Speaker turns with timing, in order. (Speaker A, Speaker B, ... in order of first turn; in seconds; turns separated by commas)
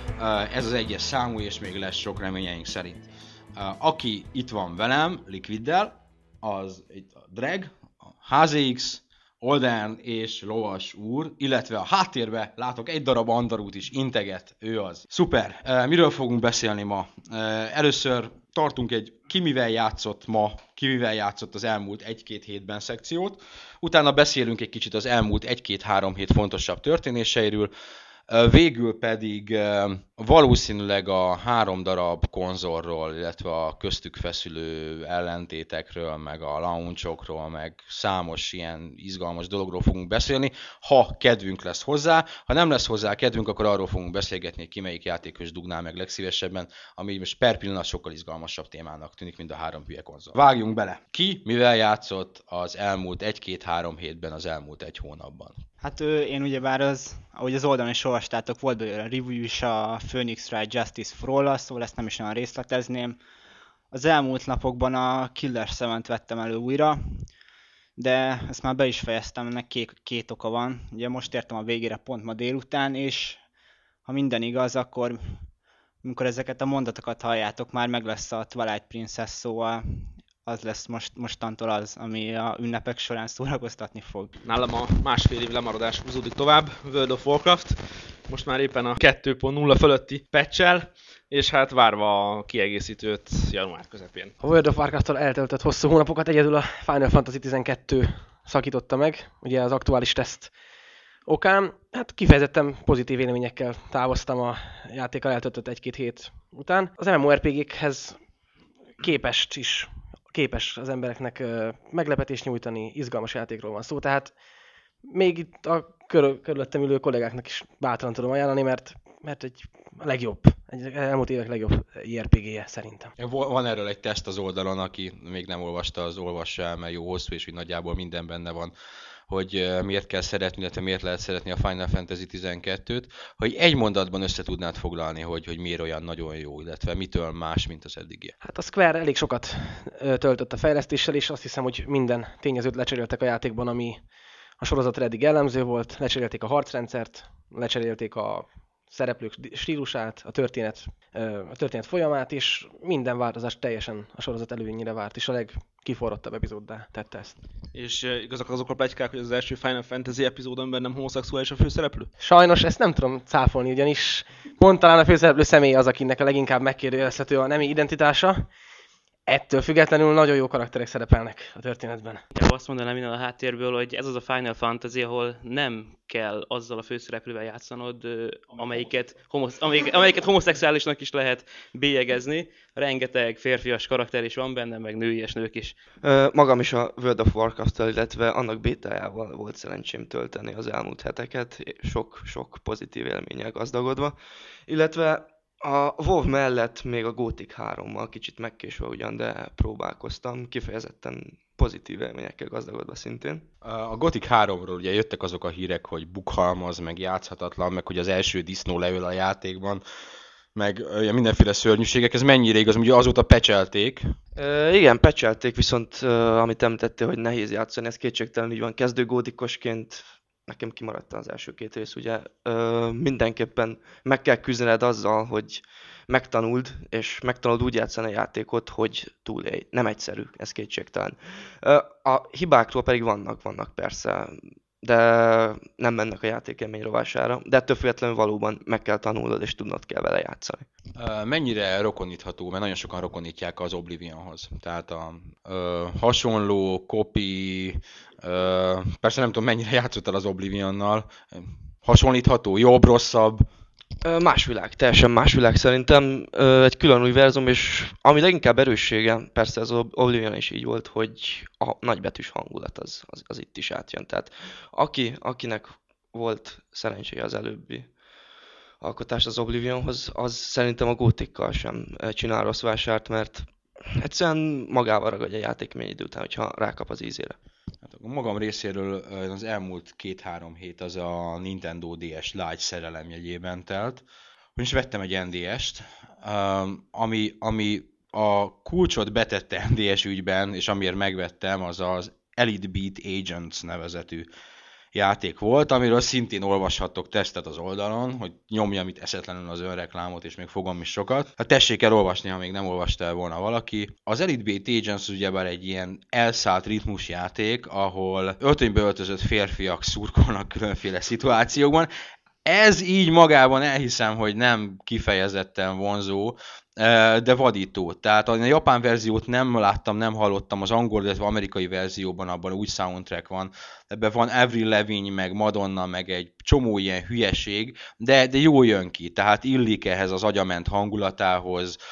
Speaker A: 0.1-27.7, Speaker A: 28.3-55.6, Speaker B: 55.8-63.2, Speaker B: 63.9-67.3, Speaker B: 68.0-73.4, Speaker B: 74.0-75.5, Speaker B: 76.0-84.3, Speaker C: 84.4-94.3, Speaker D: 94.4-100.5, Speaker D: 101.2-108.2, Speaker D: 109.0-114.3, Speaker D: 115.0-123.1, Speaker A: 123.2-128.7, Speaker A: 129.3-138.3, Speaker D: 138.4-144.0, Speaker D: 144.6-157.4, Speaker C: 157.7-162.1, Speaker D: 162.2-168.5, Speaker D: 169.3-172.2, Speaker E: 172.3-185.8, Speaker F: 186.0-203.5, Speaker A: 203.6-209.8, Speaker A: 210.5-214.2, Speaker F: 214.3-240.7, Speaker A: 240.9-253.4, Speaker F: 254.0-267.9, Speaker F: 268.8-277.4, Speaker A: 277.8-284.0, Speaker A: 284.6-294.3, Speaker A: 294.9-311.9, Speaker A: 312.4-331.8